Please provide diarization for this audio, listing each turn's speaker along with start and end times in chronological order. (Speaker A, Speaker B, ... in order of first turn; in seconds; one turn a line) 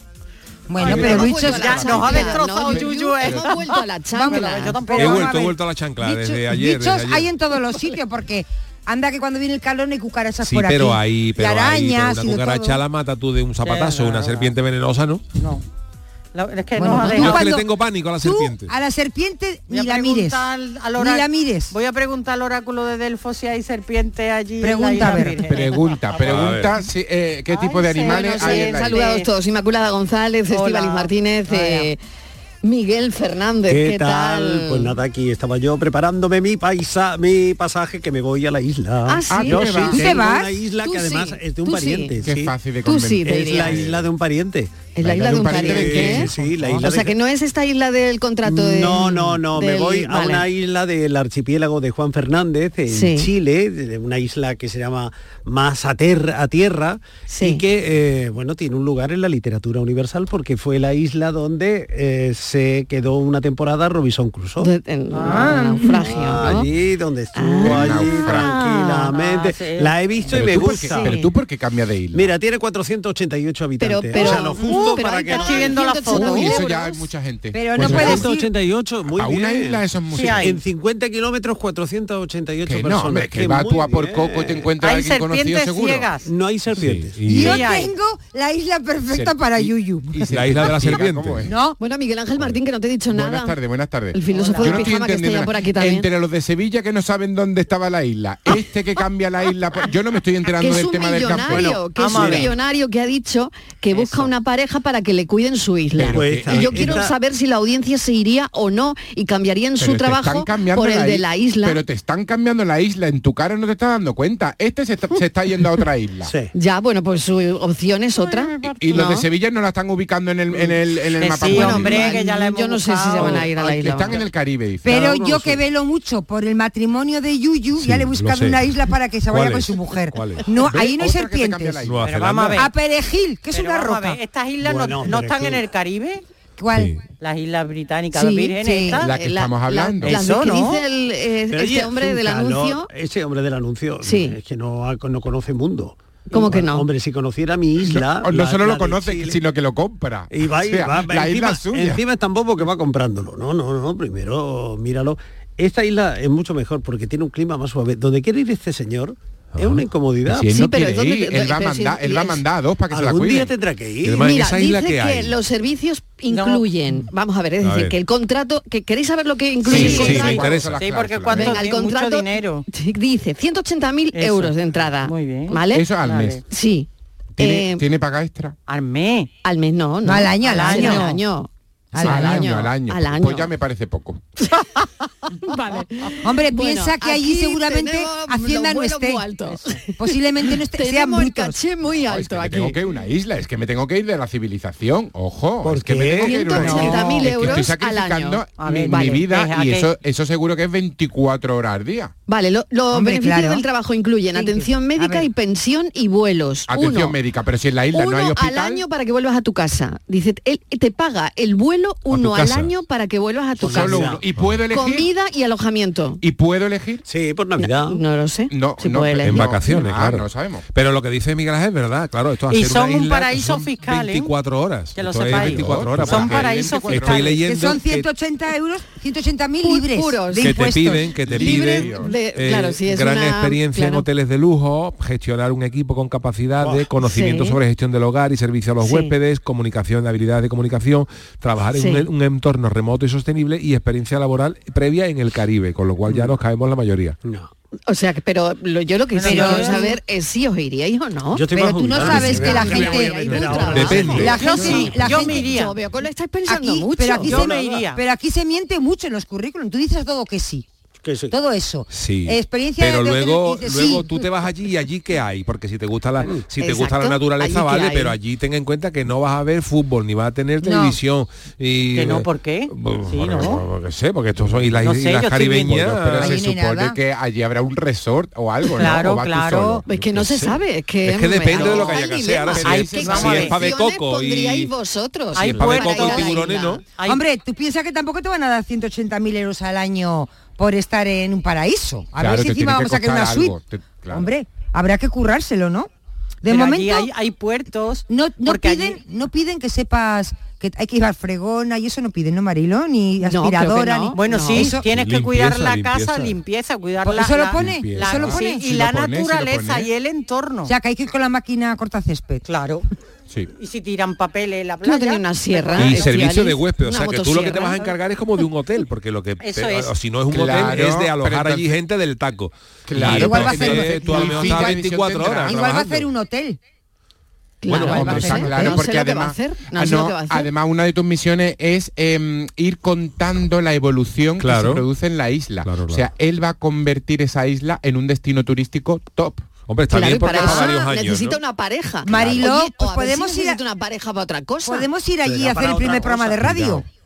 Speaker A: 0.7-2.2
Speaker B: 0.8-5.5
Speaker C: 0.8-5.0
Speaker D: 2.5-3.5
Speaker A: 4.1-5.5
Speaker E: 5.0-7.3
Speaker A: 6.0-12.8
Speaker E: 10.4-15.2
Speaker B: 13.6-14.5
Speaker B: 15.4-15.6
Speaker B: 16.3-17.5
Speaker A: 16.8-17.7
Speaker E: 16.9-18.7
Speaker A: 18.2-20.4
Speaker B: 19.7-26.6
Speaker A: 21.0-21.7
Speaker A: 24.6-25.4
Speaker D: 25.1-29.0
Speaker E: 26.2-26.7
Speaker B: 27.5-29.3
Speaker C: 27.8-32.0
Speaker B: 30.5-31.9
Speaker C: 32.6-34.9
Speaker F: 33.7-42.5
Speaker C: 39.1-39.9
Speaker D: 39.3-40.2
Speaker A: 39.9-40.6
Speaker C: 40.8-42.2
Speaker D: 42.2-44.0
Speaker C: 42.8-43.8
Speaker F: 43.2-47.2
Speaker C: 44.9-50.5
Speaker D: 45.0-46.3
Speaker A: 45.4-46.8
Speaker F: 48.4-64.7
Speaker C: 52.9-53.3
Speaker C: 57.3-57.6
Speaker C: 64.6-66.7
Speaker B: 65.1-65.5
Speaker A: 65.2-65.9
Speaker F: 66.0-71.2
Speaker C: 67.3-69.2
Speaker D: 67.6-68.5
Speaker B: 69.1-70.3
Speaker D: 70.3-72.3
Speaker C: 70.5-71.2
Speaker F: 72.1-75.8
Speaker C: 73.8-77.0
Speaker B: 74.2-76.6
Speaker D: 76.1-78.2
Speaker A: 77.5-78.5
Speaker F: 77.8-84.7
Speaker D: 79.2-80.6
Speaker B: 80.1-80.6
Speaker D: 82.6-86.1
Speaker B: 84.8-86.2
Speaker F: 86.2-87.3
Speaker E: 86.7-87.6
Speaker A: 87.3-90.3
Speaker B: 87.3-87.9
Speaker D: 89.1-91.5
Speaker E: 90.3-91.5
Speaker A: 91.5-91.8
Speaker C: 91.8-93.5
Speaker D: 93.1-101.8
Speaker C: 94.1-96.1
Speaker B: 94.3-95.0
Speaker C: 100.6-111.8
Speaker F: 101.3-102.5
Speaker B: 102.0-102.5
Speaker B: 103.9-104.3
Speaker D: 106.0-107.1
Speaker F: 106.1-107.1
Speaker D: 109.8-116.3
Speaker F: 116.2-116.5
Speaker C: 116.5-119.2
Speaker B: 118.2-119.0
Speaker D: 118.6-122.2
Speaker B: 121.2-123.5
Speaker C: 121.4-124.2
Speaker D: 123.2-125.5
Speaker A: 124.8-131.8
Speaker E: 127.8-128.7
Speaker E: 129.3-130.4
Speaker D: 130.6-132.1
Speaker E: 131.8-132.6
Speaker B: 132.0-132.7
Speaker A: 132.6-134.2
Speaker B: 133.5-136.2
Speaker F: 134.6-135.6
Speaker A: 136.6-137.0
Speaker E: 136.7-137.0
Speaker B: 137.2-139.1
Speaker C: 138.2-138.5
Speaker A: 138.6-139.0
Speaker D: 139.0-140.2
Speaker C: 139.0-142.9
Speaker B: 140.0-140.8
Speaker F: 141.5-149.4
Speaker C: 144.0-144.4
Speaker C: 146.3-146.9
Speaker D: 147.8-152.0
Speaker F: 150.3-160.5
Speaker E: 159.5-159.8
Speaker D: 160.3-163.5
Speaker C: 160.5-162.4
Speaker F: 162.9-164.2
Speaker E: 164.0-165.3
Speaker C: 164.2-170.5
Speaker B: 166.3-166.7
Speaker E: 167.6-167.9
Speaker D: 169.6-171.7
Speaker B: 169.7-172.7
Speaker E: 169.7-170.8
Speaker C: 171.3-175.9
Speaker B: 174.1-176.4
Speaker D: 175.7-176.4
Speaker C: 176.5-176.9
Speaker D: 177.3-178.5
Speaker C: 177.4-177.8
Speaker B: 178.7-179.3
Speaker C: 179.4-183.5
Speaker A: 180.0-181.1
Speaker B: 180.5-181.2
Speaker A: 181.9-182.5
Speaker D: 182.0-184.2
Speaker C: 185.5-189.8
Speaker B: 185.5-185.8
Speaker A: 186.2-189.2
Speaker B: 189.5-189.8
Speaker A: 189.9-191.6
Speaker C: 190.4-192.8
Speaker D: 192.1-202.1
Speaker F: 195.6-197.3
Speaker C: 196.2-199.2
Speaker A: 196.5-197.1
Speaker B: 198.6-199.9
Speaker C: 202.3-207.2
Speaker A: 202.9-203.6
Speaker A: 204.3-205.3
Speaker D: 206.7-208.8
Speaker C: 207.9-214.2
Speaker E: 212.1-212.7
Speaker D: 213.6-215.1
Speaker F: 213.6-214.2
Speaker C: 214.7-216.2
Speaker D: 216.2-217.0
Speaker F: 217.1-218.0
Speaker C: 217.6-219.5
Speaker D: 218.5-220.6
Speaker E: 219.2-228.1
Speaker B: 222.5-224.3
Speaker B: 224.9-227.4
Speaker D: 225.3-227.4
Speaker A: 227.4-231.1
Speaker C: 229.6-234.1
Speaker E: 230.4-247.2
Speaker D: 231.2-232.1
Speaker F: 236.6-236.9
Speaker C: 237.0-237.6
Speaker C: 238.8-239.1
Speaker C: 241.8-242.1
Speaker F: 246.1-246.3
Speaker F: 247.2-247.5
Speaker C: 247.9-257.4
Speaker B: 249.1-249.9
Speaker A: 249.2-249.9
Speaker F: 251.3-254.3
Speaker A: 251.6-255.5
Speaker E: 253.4-255.1
Speaker B: 254.2-255.8
Speaker A: 256.4-260.6
Speaker B: 257.2-258.0
Speaker F: 261.0-261.3
Speaker A: 261.3-264.2
Speaker E: 261.9-276.4
Speaker C: 266.6-268.2
Speaker A: 270.6-271.0
Speaker B: 271.9-273.6
Speaker B: 274.8-275.9
Speaker D: 275.9-280.5
Speaker A: 276.2-277.0
Speaker B: 278.8-279.8
Speaker C: 279.9-286.8
Speaker E: 280.1-284.7
Speaker B: 281.6-281.9
Speaker D: 282.5-283.5
Speaker B: 282.6-283.6
Speaker B: 285.3-287.2
Speaker E: 285.4-286.8
Speaker A: 287.0-293.6
Speaker D: 292.2-294.3
Speaker A: 294.1-295.9
Speaker A: 296.4-297.1
Speaker B: 296.5-299.0
Speaker A: 298.1-304.8
Speaker C: 303.2-304.7
Speaker B: 304.1-310.7
Speaker E: 304.9-306.3
Speaker A: 307.0-308.6
Speaker D: 307.5-309.9
Speaker A: 310.6-312.4
Speaker B: 312.4-312.8
Speaker B: 313.6-316.3
Speaker C: 314.8-317.9
Speaker E: 315.8-326.1
Speaker B: 319.4-319.9
Speaker D: 320.3-321.8
Speaker D: 322.9-325.6
Speaker A: 323.0-324.8
Speaker A: 325.4-326.6
Speaker C: 327.6-330.5
Speaker E: 327.7-328.5
Speaker A: 327.7-328.8
Speaker D: 327.8-339.5
Speaker E: 334.4-334.8
Speaker E: 335.6-336.1
Speaker E: 339.7-341.4
Speaker C: 339.9-344.9
Speaker A: 340.4-340.6
Speaker A: 342.0-343.6
Speaker A: 344.6-346.8
Speaker F: 345.2-346.7